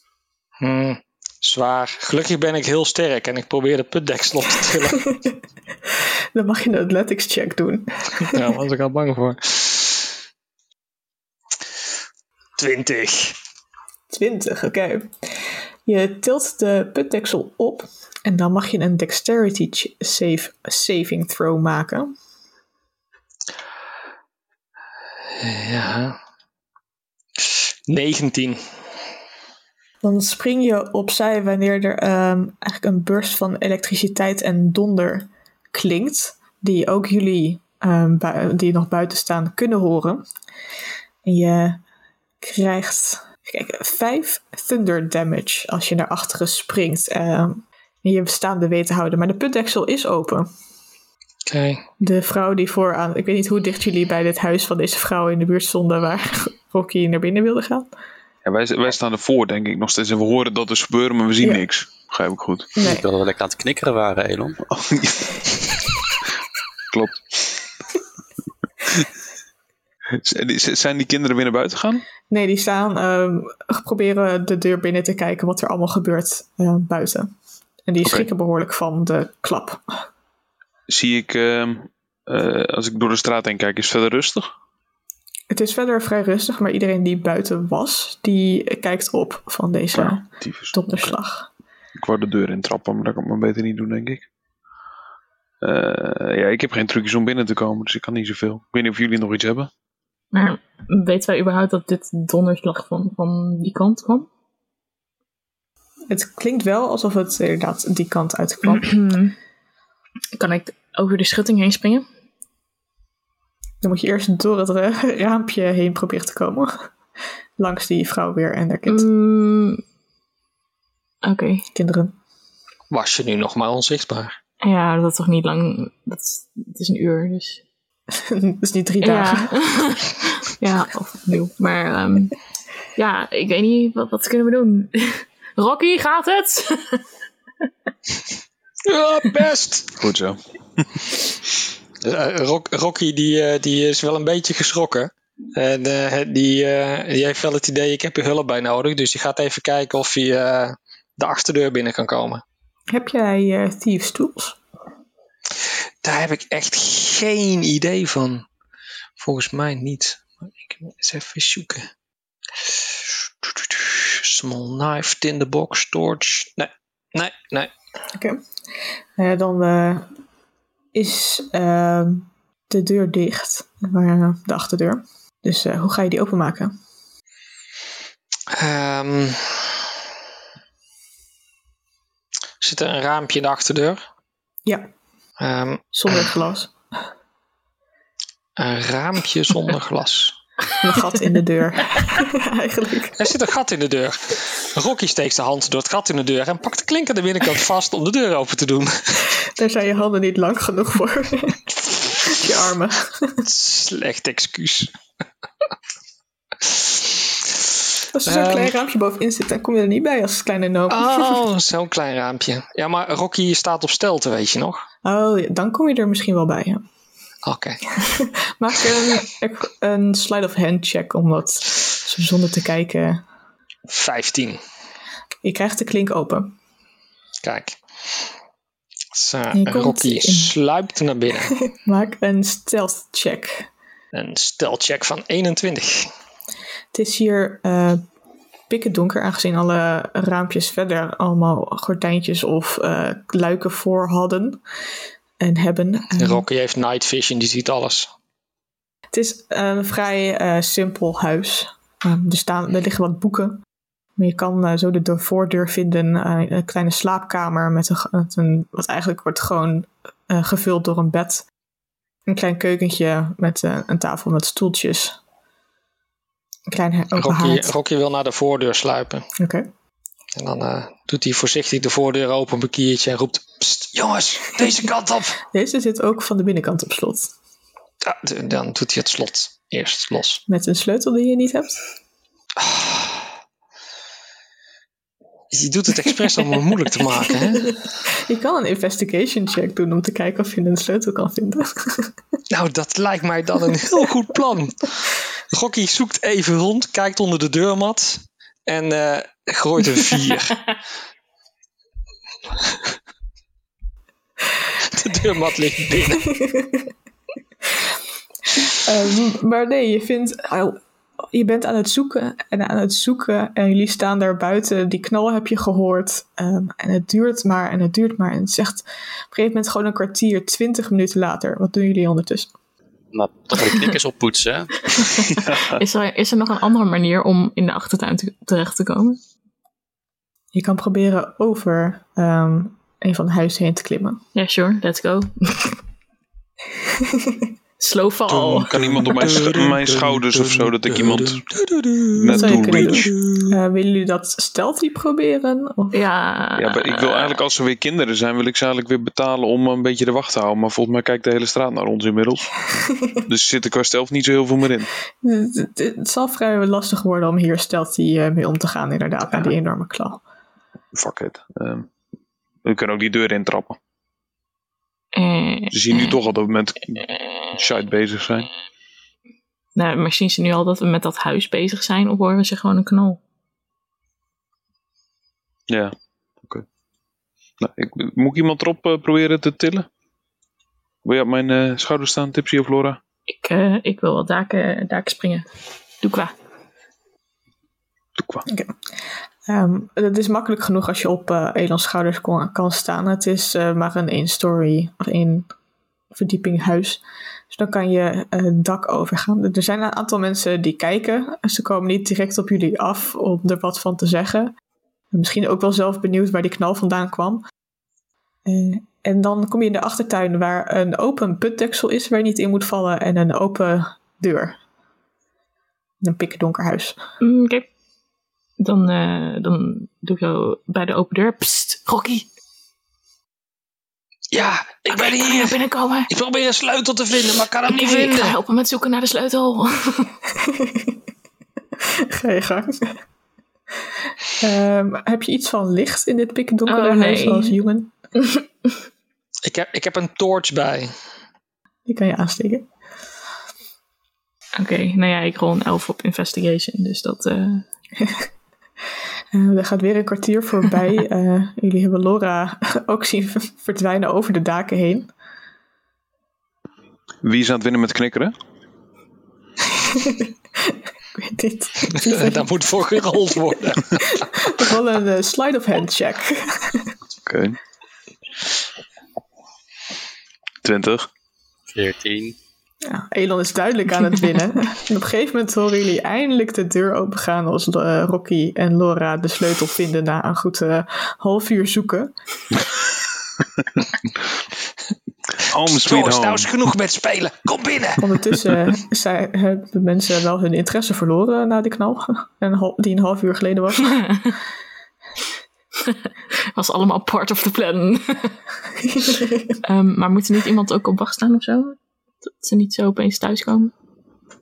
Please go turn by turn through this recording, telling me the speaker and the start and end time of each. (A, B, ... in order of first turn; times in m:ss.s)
0:00.6-0:05.1 A
0:06.3-0:08.4 B
0:08.3-0:10.0 A
0:12.6-0:13.4 A
0:14.1-0:22.1 B
0:25.4-0:26.2 A
0:27.4-0:28.6 A
0:30.0-0:40.2 B
0:41.2-0:41.8 B
0:42.4-0:50.5 B
0:51.4-0:51.8 A
0:52.0-0:57.9 B
0:58.4-1:02.7 C
1:02.8-1:03.0 B
1:02.8-1:04.6 D
1:04.7-1:06.0 C
1:06.9-1:07.4 C
1:10.1-1:12.0 C
1:12.3-1:17.3 B
1:17.8-1:19.8 B
1:20.9-1:24.5 C
1:25.5-1:31.5 B
1:29.9-1:31.1 C
1:31.9-1:34.2 C
1:35.6-1:39.7 C
1:40.3-1:44.3 E
1:46.1-1:48.9 B
1:48.6-1:49.3 E
1:50.4-1:52.0 E
1:53.8-1:56.9 B
1:57.6-1:59.0 B
1:58.9-1:59.8 E
2:01.2-2:01.7 E
2:01.7-2:02.2 B
2:02.9-2:04.4 A
2:04.6-2:07.6 E
2:08.1-2:09.8 B
2:09.0-2:12.3 E
2:13.0-2:17.0 E
2:18.8-2:20.0 A
2:20.0-2:21.0 C
2:22.0-2:32.4 A
2:32.9-2:34.6 B
2:36.0-2:38.4 A
2:39.2-2:41.9 A
2:42.7-2:47.7 A
2:48.1-2:48.4 B
2:49.2-2:50.1 B
2:50.9-2:56.7 B
2:58.5-2:59.8 A
3:02.6-3:04.0 A
3:05.4-3:06.3 A
3:05.9-3:06.7 B
3:08.6-3:10.4 A
3:10.8-3:13.2 B
3:13.2-3:19.2 A
3:19.5-3:23.4 B
3:23.4-3:24.9 A
3:26.6-3:27.6 A
3:28.1-3:31.4 B
3:28.2-3:28.7 A
3:30.9-3:34.8 A
3:35.0-3:36.8 B
3:37.4-3:38.0 A
3:38.1-3:43.2 B
3:43.9-3:44.6 A
3:45.4-3:46.5 B
3:47.4-3:47.8 A
3:49.1-3:51.5 A
3:49.5-3:50.5 B
3:51.6-3:53.7 B
3:54.1-3:56.1 A
3:56.9-3:58.0 B
3:58.7-4:04.6 B
4:05.4-4:06.4 B
4:06.2-4:08.1 A
4:09.1-4:13.6 B
4:14.2-4:21.4 B
4:22.3-4:25.2 B
4:26.7-4:27.7 B
4:27.2-4:29.3 A
4:29.4-4:29.7 B
4:30.3-4:35.4 A
4:35.5-4:37.3 B
4:38.0-4:40.4 A
4:40.5-4:41.8 B
4:42.6-4:43.2 A
4:45.5-4:47.8 A
4:48.1-4:52.1 B
4:52.5-5:00.7 A
5:04.8-5:06.4 A
5:06.4-5:06.8 B
5:08.7-5:10.8 B
5:11.3-5:22.5 B
5:23.1-5:24.9 D
5:24.9-5:29.2 E
5:25.3-5:25.8 C
5:30.5-5:34.2 B
5:34.3-5:35.8 E
5:37.0-5:37.4 B
5:37.8-5:38.7 E
5:38.3-5:43.6 A
5:38.5-5:41.4 C
5:42.1-5:43.1 C
5:42.3-5:46.0 B
5:45.9-5:47.4 E
5:46.6-5:52.6 C
5:53.1-5:54.9 C
5:55.2-6:00.2 B
6:00.9-6:01.9 C
6:02.6-6:03.8 C
6:05.1-6:06.2 E
6:05.7-6:08.5 C
6:09.8-6:13.2 E
6:15.7-6:16.6 C
6:17.6-6:19.9 C
6:21.0-6:23.0 C
6:23.3-6:25.4 E
6:26.0-6:26.3 E
6:28.2-6:28.4 C
6:28.5-6:28.7 B
6:29.5-6:35.5 B
6:36.1-6:44.5 B
6:45.1-6:47.4 B
6:48.4-6:54.6 B
6:56.0-6:57.0 B
6:57.2-6:57.7 E
6:58.6-7:02.2 E
7:04.3-7:08.4 A
7:04.9-7:06.1 E
7:07.7-7:10.2 E
7:10.4-7:10.9 B
7:11.8-7:13.0 B
7:14.4-7:17.9 B
7:16.7-7:17.6 E
7:19.4-7:20.9 A
7:21.9-7:22.6 B
7:24.6-7:27.6 E
7:28.0-7:28.3 B
7:29.3-7:35.1 B
7:37.2-7:38.3 C
7:39.7-7:42.4 B
7:41.9-7:44.2 A
7:44.0-7:46.9 B
7:47.2-7:47.6 C
7:50.6-7:51.1 C
7:51.7-7:52.4 D
7:52.8-8:02.1 B
8:05.4-8:06.5 C
8:05.6-8:08.0 A
8:08.0-8:14.1 B
8:13.8-8:14.3 E
8:16.5-8:18.4 E
8:19.6-8:23.7 E